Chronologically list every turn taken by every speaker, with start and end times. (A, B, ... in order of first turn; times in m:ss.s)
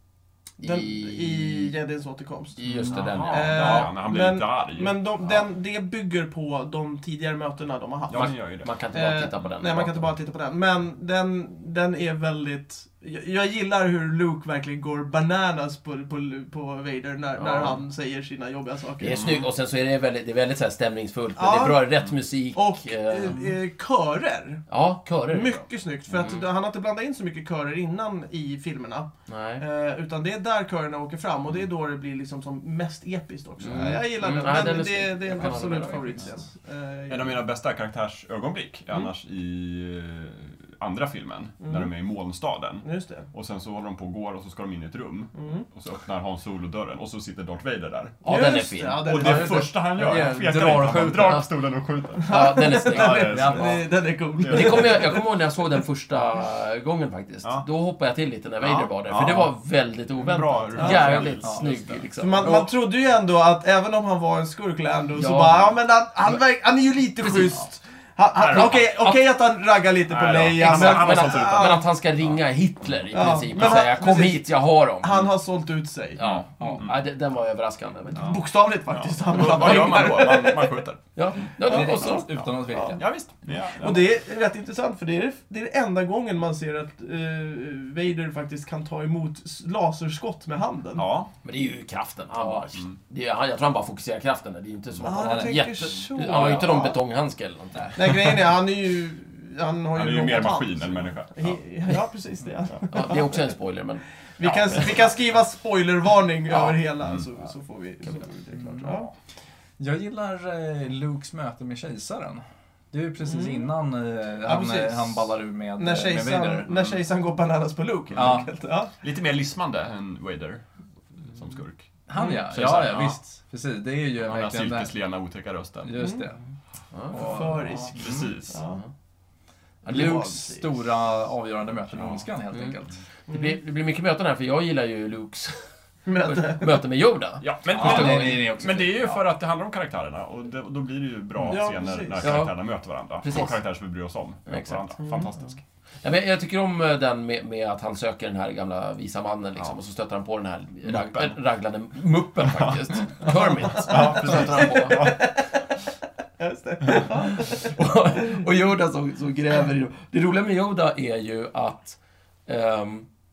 0:00.6-0:01.7 A
0:00.6-0:02.6 B
0:02.6-0:03.9 A
0:02.9-0:05.0 C
0:03.3-0:08.4 B
0:08.1-0:08.7 C
0:08.1-0:10.1 A
0:08.9-0:19.4 B
0:17.4-0:17.8 A
0:19.0-0:23.4 A
0:19.1-0:19.4 C
0:21.4-0:24.6 B
0:24.7-0:26.5 A
0:25.3-0:37.4 B
0:29.3-0:29.6 A
0:33.6-0:34.0 C
0:33.6-0:36.3 A
0:37.1-0:48.2 C
0:41.6-0:41.9 B
0:42.8-0:43.3 B
0:45.4-0:45.7 B
0:48.2-0:49.5 A
0:48.2-0:50.3 B
0:49.0-0:53.8 C
0:49.9-0:51.4 D
0:52.2-0:55.3 B
0:52.2-0:53.4 A
0:53.2-0:53.8 D
0:54.4-0:55.1 C
0:54.4-1:02.7 A
0:58.6-0:59.6 C
1:00.1-1:02.6 C
1:00.8-1:01.0 B
1:00.8-1:01.7 D
1:02.2-1:11.8 B
1:05.1-1:05.6 A
1:07.2-1:07.6 A
1:08.4-1:09.2 C
1:08.5-1:09.2 A
1:10.1-1:11.9 C
1:10.6-1:15.2 A
1:13.1-1:14.4 B
1:13.5-1:13.8 C
1:15.0-1:16.2 B
1:16.2-1:18.4 A
1:16.2-1:17.0 C
1:18.1-1:21.0 C
1:18.2-1:20.8 B
1:19.6-1:20.1 A
1:21.2-1:22.4 A
1:21.7-1:23.0 D
1:21.7-1:22.0 B
1:22.3-1:24.1 C
1:22.7-1:23.0 B
1:23.8-1:31.1 B
1:31.0-1:31.3 C
1:31.4-1:38.0 A
1:32.3-1:33.0 C
1:35.0-1:37.0 B
1:35.2-1:35.6 D
1:37.8-1:38.2 D
1:38.0-1:43.5 B
1:39.9-1:41.6 C
1:42.9-1:44.8 A
1:44.4-1:49.1 B
1:44.5-1:45.0 C
1:47.0-1:47.3 C
1:49.8-1:56.7 D
1:53.2-1:53.7 B
1:54.4-1:58.9 B
1:56.7-1:57.0 C
1:58.1-1:58.4 C
1:58.2-1:58.5 D
1:59.0-2:01.9 C
2:02.1-2:04.9 D
2:02.2-2:02.5 B
2:02.5-2:03.2 C
2:04.2-2:06.0 C
2:05.8-2:06.4 D
2:06.0-2:06.3 B
2:06.9-2:07.2 A
2:07.1-2:08.3 D
2:07.1-2:08.0 B
2:07.9-2:08.6 C
2:08.5-2:08.8 B
2:09.8-2:10.8 B
2:09.8-2:13.0 D
2:11.9-2:12.2 C
2:12.5-2:12.8 A
2:13.3-2:15.6 A
2:16.0-2:16.8 B
2:16.2-2:18.4 A
2:17.4-2:25.6 C
2:17.7-2:19.2 D
2:21.4-2:22.4 B
2:22.2-2:22.6 A
2:23.2-2:23.6 A
2:24.5-2:25.0 A
2:25.0-2:25.3 B
2:26.0-2:35.1 A
2:30.9-2:31.4 C
2:32.4-2:35.3 C
2:33.2-2:35.5 B
2:36.4-2:38.3 B
2:37.0-2:43.1 A